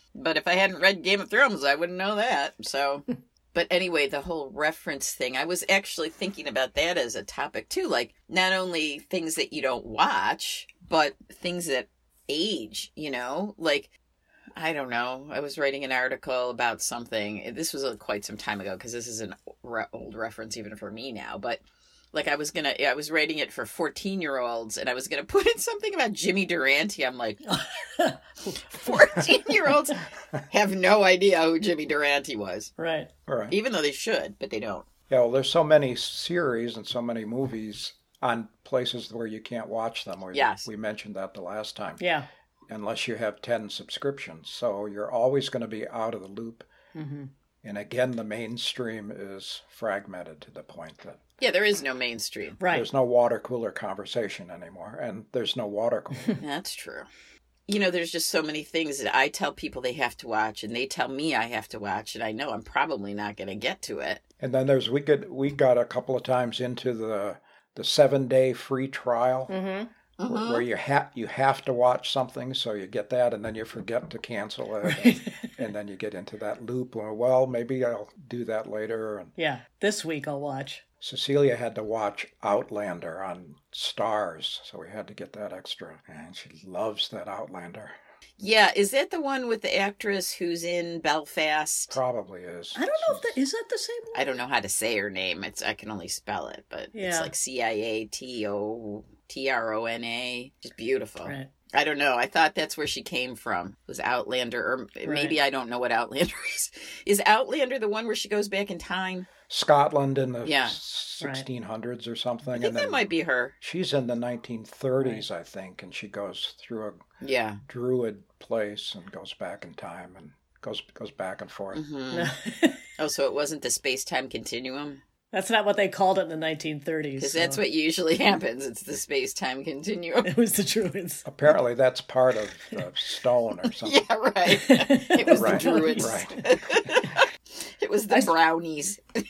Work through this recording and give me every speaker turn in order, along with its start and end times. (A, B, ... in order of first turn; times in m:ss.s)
0:00.1-0:13.9 A
0:14.6-0:21.6 A
0:22.1-0:27.5 A
0:27.5-0:29.3 B
0:28.7-0:32.7 A
0:32.8-0:33.1 B
0:33.3-0:33.6 C
0:33.5-0:34.9 A
0:35.1-0:42.0 C
0:40.3-0:40.7 A
0:42.0-0:42.3 B
0:42.7-0:46.7 C
0:46.9-0:47.3 B
0:47.6-0:51.2 C
0:51.4-0:52.6 A
0:52.6-0:52.9 B
0:52.7-0:56.4 C
0:56.4-0:57.1 A
0:57.7-1:04.2 A
1:04.4-1:09.5 C
1:09.5-1:09.9 B
1:10.2-1:10.7 A
1:10.2-1:19.3 C
1:14.8-1:15.5 B
1:19.4-1:20.8 B
1:21.0-1:27.9 C
1:28.4-1:32.0 A
1:31.9-1:33.4 C
1:32.7-1:34.3 B
1:34.1-1:49.3 A
1:36.9-1:37.3 B
1:41.2-1:41.5 B
1:45.0-1:45.4 B
1:49.5-1:53.1 C
1:50.4-1:50.8 A
1:51.2-1:51.4 B
1:52.5-1:53.5 A
1:53.6-1:57.0 C
1:57.2-1:57.6 A
1:57.7-2:01.8 C
2:01.7-2:02.3 A
2:02.1-2:02.8 B
2:03.0-2:05.0 A
2:05.3-2:07.6 B
2:07.2-2:10.3 A
2:10.2-2:11.3 B
2:11.2-2:14.0 C
2:13.8-2:19.0 A
2:14.5-2:16.3 B
2:15.4-2:16.4 C
2:18.1-2:18.4 B